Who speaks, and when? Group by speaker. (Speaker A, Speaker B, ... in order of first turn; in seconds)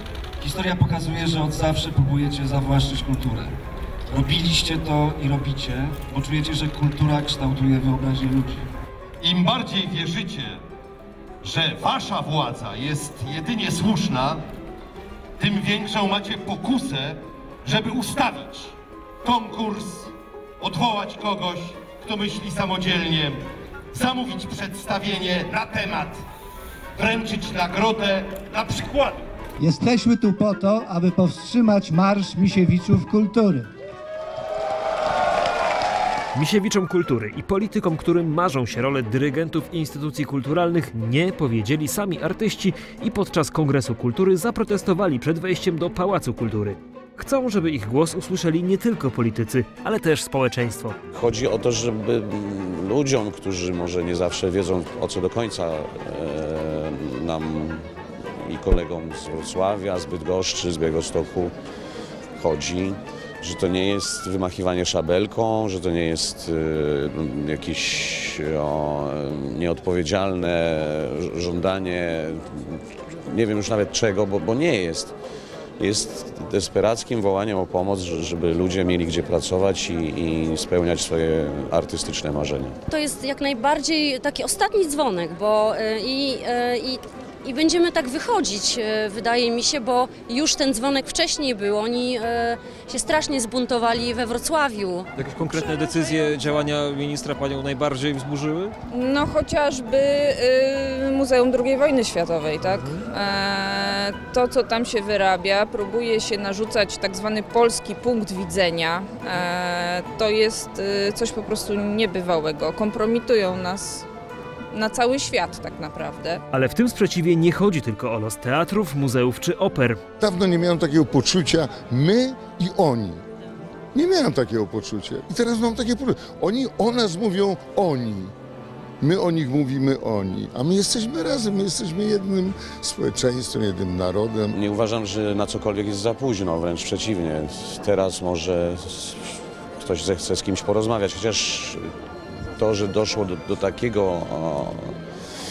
Speaker A: 0.4-3.5, 4.1-8.7
Speaker B: 9.2-10.6, 11.4-14.4, 15.4-26.2, 27.0-29.2
Speaker C: 29.6-33.7
Speaker D: 36.3-51.0, 116.5-120.0
Speaker E: 51.1-57.8, 58.4-61.5, 62.4-75.2, 75.8-82.8, 134.5-141.8, 142.6-144.9
Speaker F: 82.9-95.1
Speaker G: 95.2-98.8
Speaker H: 95.5-96.2, 98.9-114.1, 114.7-116.4
Speaker I: 120.2-123.2, 123.9-128.3, 129.0-134.6